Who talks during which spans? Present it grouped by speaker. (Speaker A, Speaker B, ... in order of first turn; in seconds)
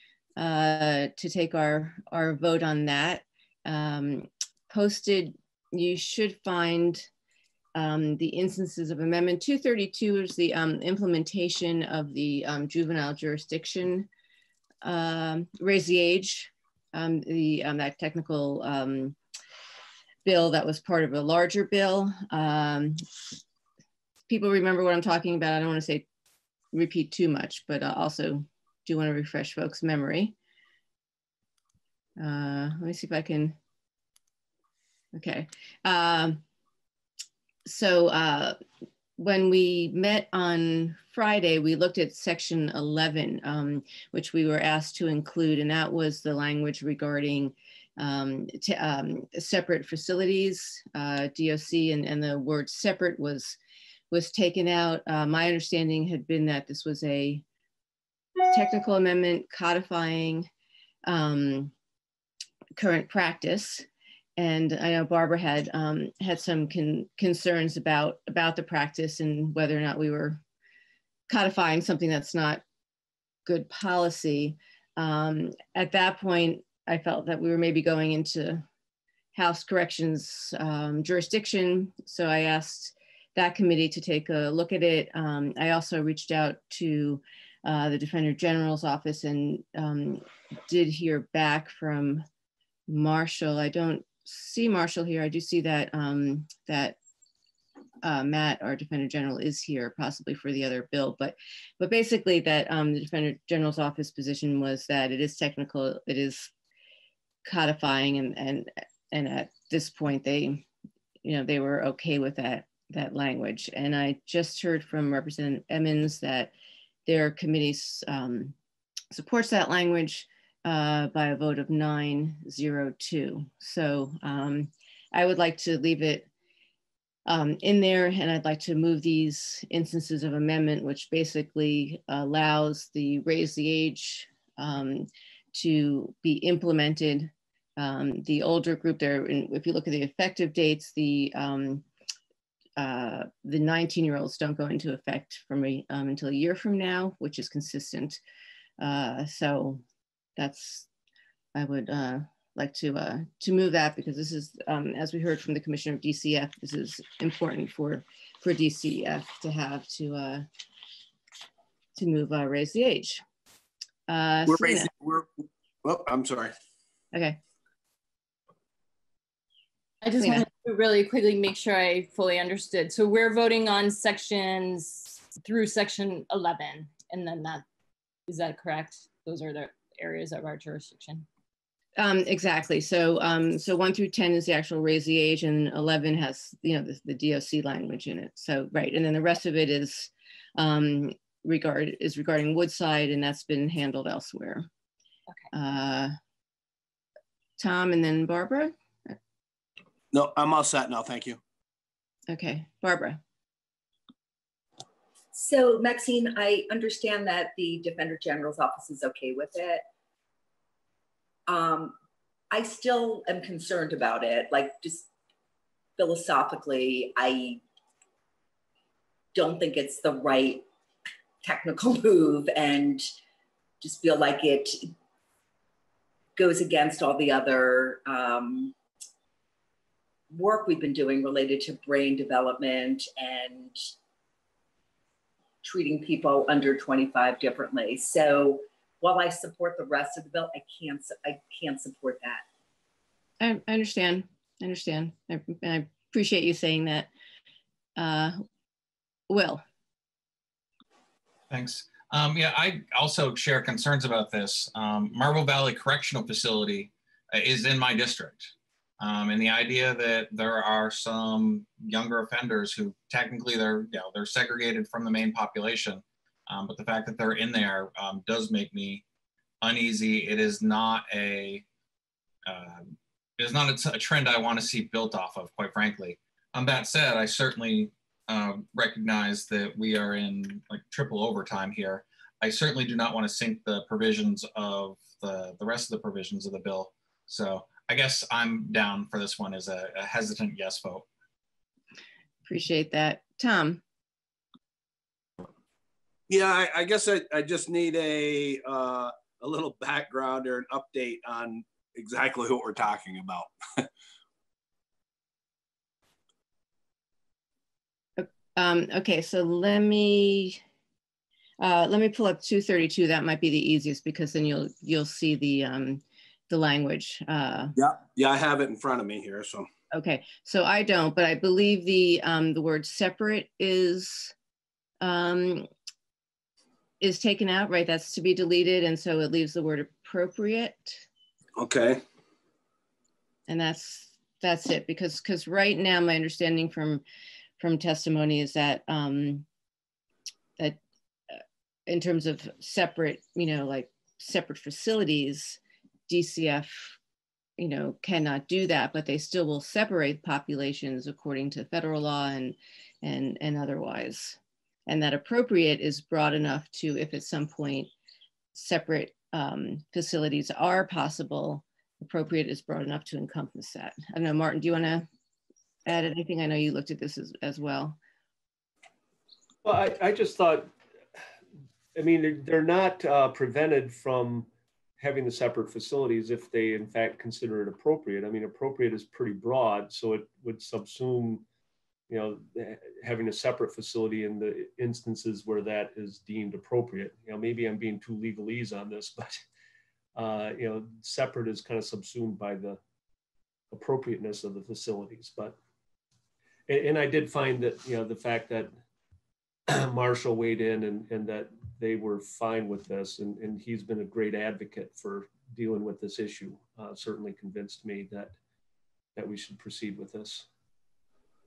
Speaker A: 0.4-7.1, 7.8-14.1, 14.8-19.2, 20.2-23.0, 24.3-26.1, 26.7-30.4, 32.2-33.6, 35.1-36.4, 37.7-38.6, 39.2-53.6, 54.1-57.4, 58.5-60.5, 61.1-61.7, 62.8-70.4, 71.3-72.6, 73.5-78.7, 79.3-92.2, 92.9-97.0, 98.0-106.5, 107.5-110.6, 111.2-116.5, 117.1-118.6, 119.1-126.3, 127.3-141.8, 142.8-148.2, 148.8-149.8, 150.4-150.9, 151.6-160.5, 161.9-163.2, 164.1-164.9, 170.2-170.5, 182.0-194.7, 195.5-196.1, 197.6-199.1, 202.3-203.2, 243.4-247.1, 248.0-248.3, 249.3-249.6, 292.5-293.8, 308.2-310.6, 311.6-317.7, 319.9-324.3, 325.0-325.7, 327.0-331.1, 333.5-337.0, 337.6-339.5, 341.3-347.0, 347.6-357.9, 358.5-365.1, 365.9-368.0
Speaker B: 164.5-166.5, 200.1-201.4, 296.3-303.9, 317.8-319.7, 331.6-332.0
Speaker C: 170.0-177.6, 178.3-181.3
Speaker D: 205.3-209.8, 211.5-211.9, 212.5-215.1, 216.0-217.6, 219.3-220.7, 221.4-223.1, 223.8-224.9, 226.4-228.8, 230.3-233.8, 235.6-242.4
Speaker E: 251.5-269.0, 269.6-271.6, 272.5-291.1
Speaker F: 369.6-370.7, 371.9-374.5, 375.0-381.4, 382.1-389.4, 390.2-392.8, 393.7-395.6, 396.7-398.7, 399.8-408.4, 409.1-410.4